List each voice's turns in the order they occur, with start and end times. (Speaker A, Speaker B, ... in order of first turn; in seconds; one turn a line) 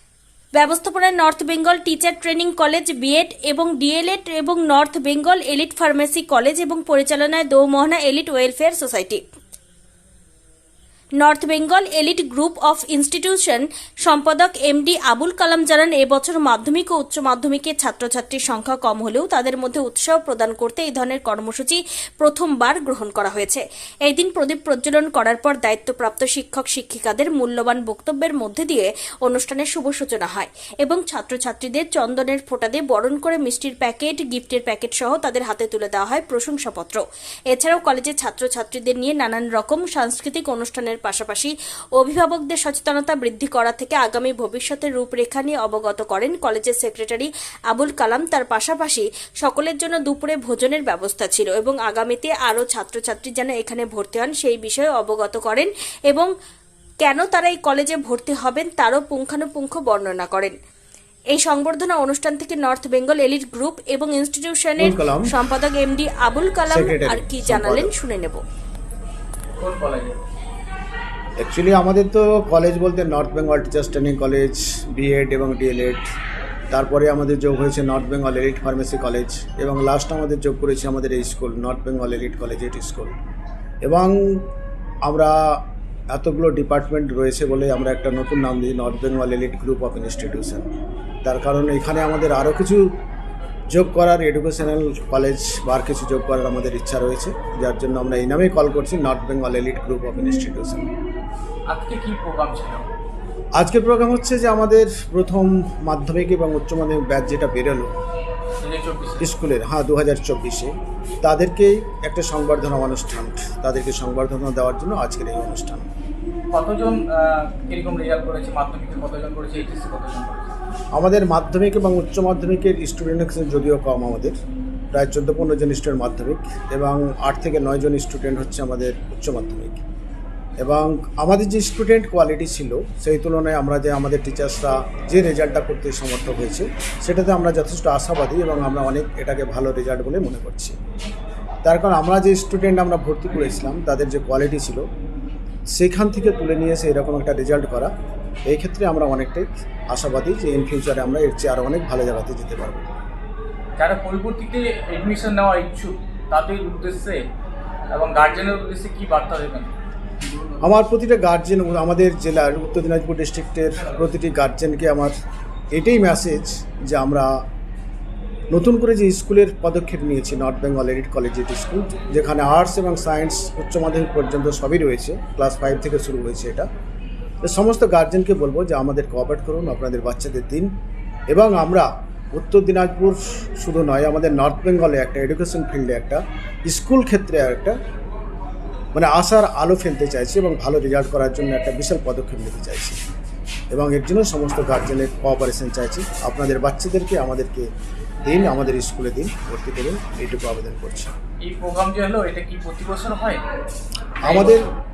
Speaker A: 0.5-9.2
Speaker A: 11.2-56.3
Speaker A: 57.0-60.5
Speaker A: 61.3-68.4
Speaker B: 64.8-65.3
Speaker B: 66.7-67.9
Speaker C: 69.6-70.2
Speaker B: 71.4-76.0
Speaker B: 76.7-83.2
Speaker B: 83.8-84.5
Speaker B: 85.0-90.7
Speaker B: 91.2-92.8
Speaker B: 93.7-100.9
Speaker C: 101.7-102.8
Speaker B: 103.5-107.9
Speaker C: 108.6-109.3
Speaker B: 109.2-115.9
Speaker C: 116.5-120.5
Speaker B: 120.9-124.3
Speaker B: 124.9-129.8
Speaker B: 130.6-140.8
Speaker B: 141.6-144.8
Speaker B: 145.7-147.9
Speaker B: 148.4-152.8
Speaker C: 153.8-157.2
Speaker C: 157.9-159.7
Speaker B: 160.6-165.1
Speaker B: 165.7-167.3
Speaker B: 168.5-176.7
Speaker B: 177.4-180.7
Speaker B: 181.3-187.8
Speaker B: 188.9-193.0
Speaker B: 193.7-197.7
Speaker B: 198.2-201.1
Speaker C: 201.4-203.4
Speaker C: 204.2-204.7
Speaker B: 204.2-204.7